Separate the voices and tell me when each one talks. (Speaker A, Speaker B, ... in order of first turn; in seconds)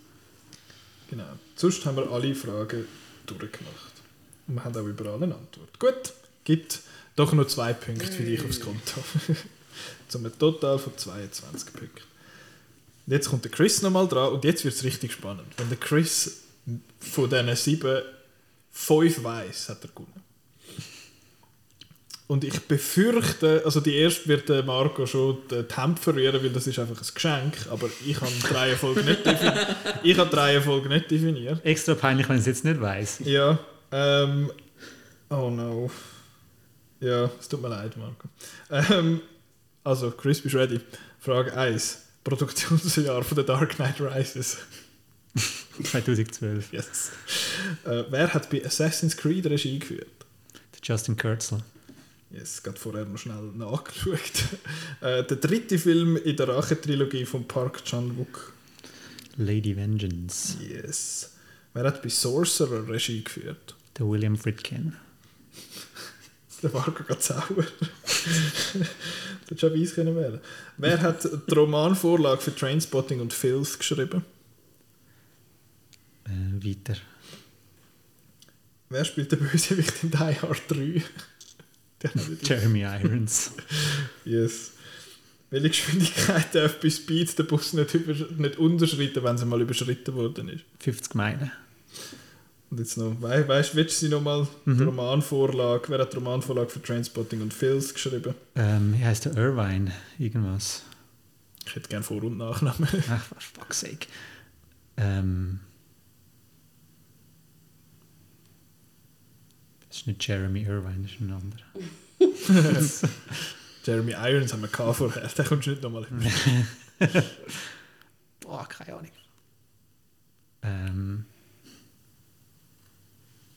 Speaker A: 1.1-12.1, 13.1-18.2, 18.7-20.2, 22.3-31.6, 33.2-34.6, 35.3-36.2, 37.0-39.3, 39.8-44.7, 46.7-50.2, 52.3-58.5, 60.5-63.8, 66.6-74.2, 78.9-81.1, 82.0-82.7, 83.8-84.8, 85.5-90.7, 92.7-98.4, 101.7-103.1, 112.5-112.9, 113.8-116.4
Speaker B: 31.6-33.2, 45.8-46.9, 50.8-51.6, 59.4-60.6, 64.0-65.0, 76.2-77.1, 82.2-83.6, 90.8-91.6, 94.7-94.9, 98.5-100.9, 103.1-104.2, 105.0-105.6, 109.9-111.7, 116.1-117.6, 118.4-119.2, 120.6-121.3